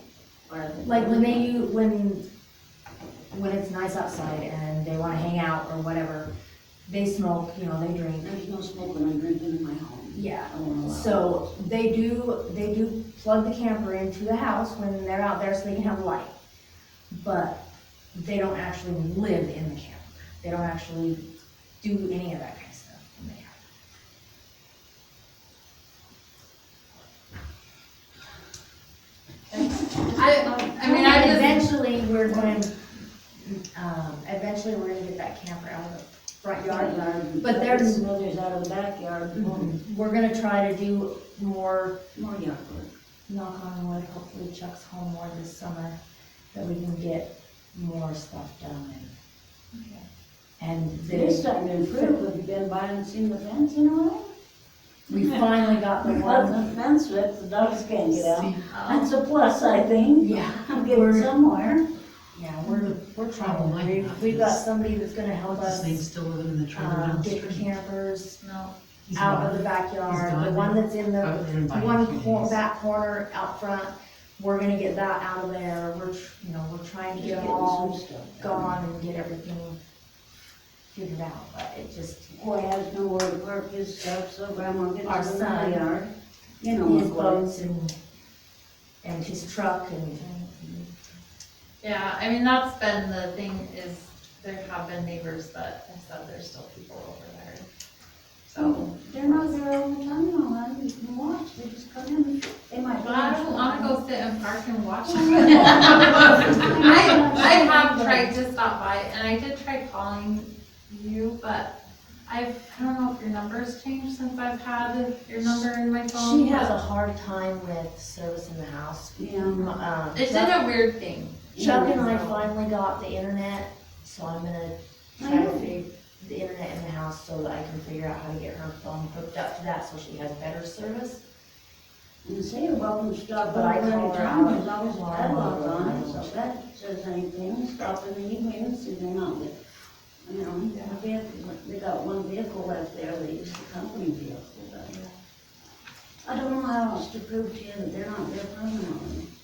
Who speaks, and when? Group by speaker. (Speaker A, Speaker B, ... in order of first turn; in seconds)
Speaker A: 0.5-1.5, 8.2-11.6, 30.1-31.1, 32.3-32.5, 36.7-39.8, 42.1-42.9, 51.1-54.3, 56.0-61.9, 77.1-78.8, 82.3-87.6, 98.6-104.0, 105.1-108.3, 119.2-119.8, 121.5-122.1, 125.2-125.8, 132.2-139.6, 140.2-145.0, 146.2-149.3
Speaker B: 0.8-2.3, 3.3-6.3, 6.9-8.3, 10.1-16.3, 17.1-17.6, 18.1-21.2, 21.8-23.6, 30.9-32.8, 33.4-38.0, 39.4-42.0, 43.3-46.0, 46.5-49.1, 50.6-52.2, 55.1-56.8, 60.2-61.3, 62.3-66.0, 66.7-68.4, 69.1-79.8, 80.9-82.3, 85.0-85.9, 86.8-88.0, 89.0-90.9, 116.1-120.6, 121.6-131.2, 133.4-136.3
Speaker C: 29.5-31.7, 49.7-50.0, 58.6-59.1, 68.4-68.7, 91.8-97.7, 98.5-99.6, 103.0-111.8, 112.3-116.8, 120.1-122.5, 140.7-141.0
Speaker D: 58.2-58.6, 62.7-64.6, 65.5-67.7, 69.1-72.6